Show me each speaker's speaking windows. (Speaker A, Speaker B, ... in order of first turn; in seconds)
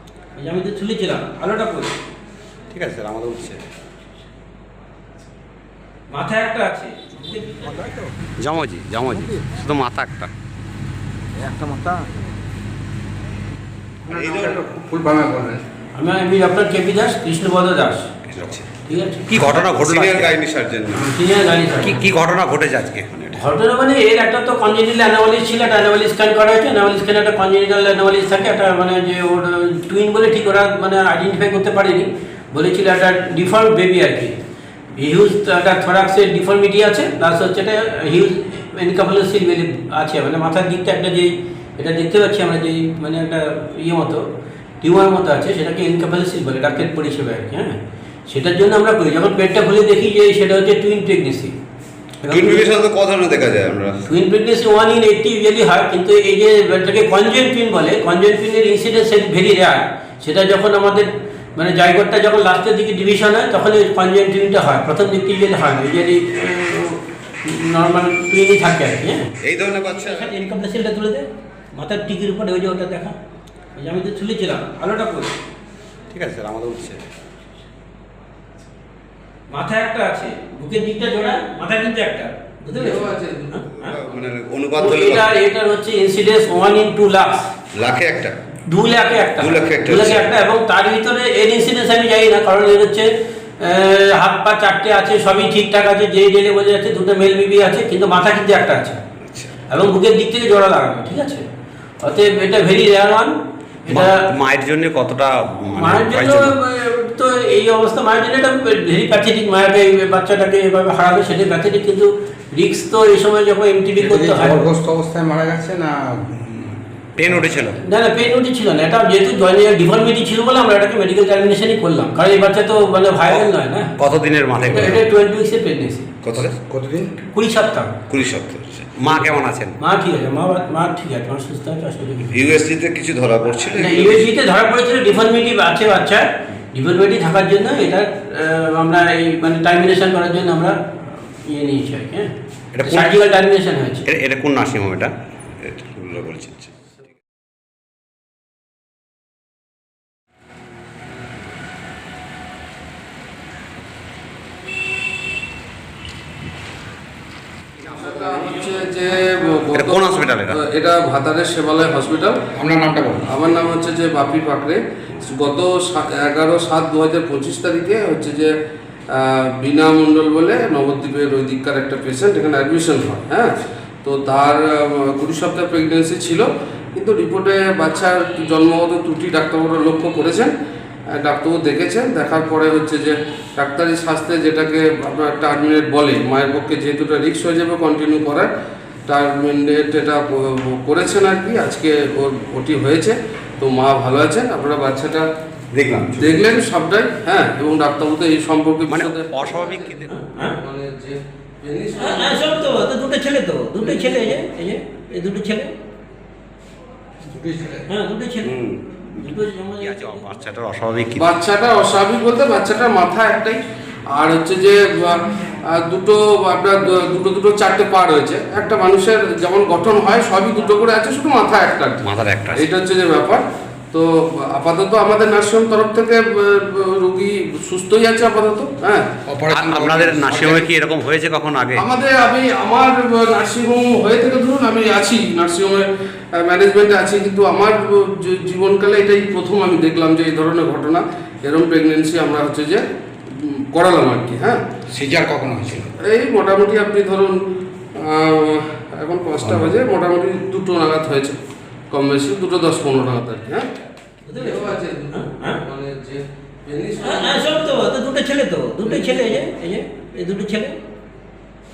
Speaker A: 0.4-1.9, 6.1-8.0, 15.9-18.1, 18.8-19.6, 20.9-22.0, 23.3-34.4, 35.0-44.3, 44.8-51.5, 52.2-52.7, 54.0-69.3, 69.8-73.2, 73.8-75.3, 79.5-84.0, 84.8-87.5, 88.7-93.1, 93.6-99.0, 99.7-101.4, 102.0-103.3, 103.9-104.3, 105.8-114.7, 117.8-124.0, 124.7-126.1, 127.3-128.0, 129.8-132.4, 133.7-142.3, 142.8-144.1, 200.0-200.6, 202.0-205.7, 207.9-210.3, 254.2-255.6, 257.0-260.8
Speaker B: 2.7-3.7, 8.4-10.3, 18.3-18.7, 19.3-20.4, 21.8-23.4, 76.1-77.0, 99.2-99.5, 103.9-106.5, 117.2-117.8, 124.0-125.0, 126.2-126.5, 128.9-129.8, 142.7-143.2, 144.1-146.7, 159.7-160.6, 195.7-196.6, 198.9-200.2, 208.4-208.8, 209.8-211.3, 222.0-222.7, 229.5-231.8
Speaker C: 11.4-12.1, 14.1-15.6, 114.0-117.4, 126.4-127.2, 162.5-163.3, 207.3-207.8, 229.3-230.7, 244.9-245.9, 249.4-249.7
Speaker D: 14.1-14.6, 19.9-21.0, 52.3-54.0, 82.8-84.2, 89.4-89.9, 132.3-134.1, 157.9-162.4, 163.3-168.5, 169.1-180.5, 181.1-188.5, 189.1-195.3, 196.2-199.9, 200.5-202.8, 203.8-204.4, 211.2-223.4, 223.9-229.1, 231.8-244.6, 246.0-247.4, 248.0-251.4, 251.9-253.7, 254.3-257.8, 258.8-259.4
Speaker E: 69.5-70.2, 84.1-85.3, 87.8-88.3, 89.7-90.3, 128.1-128.8, 133.7-134.2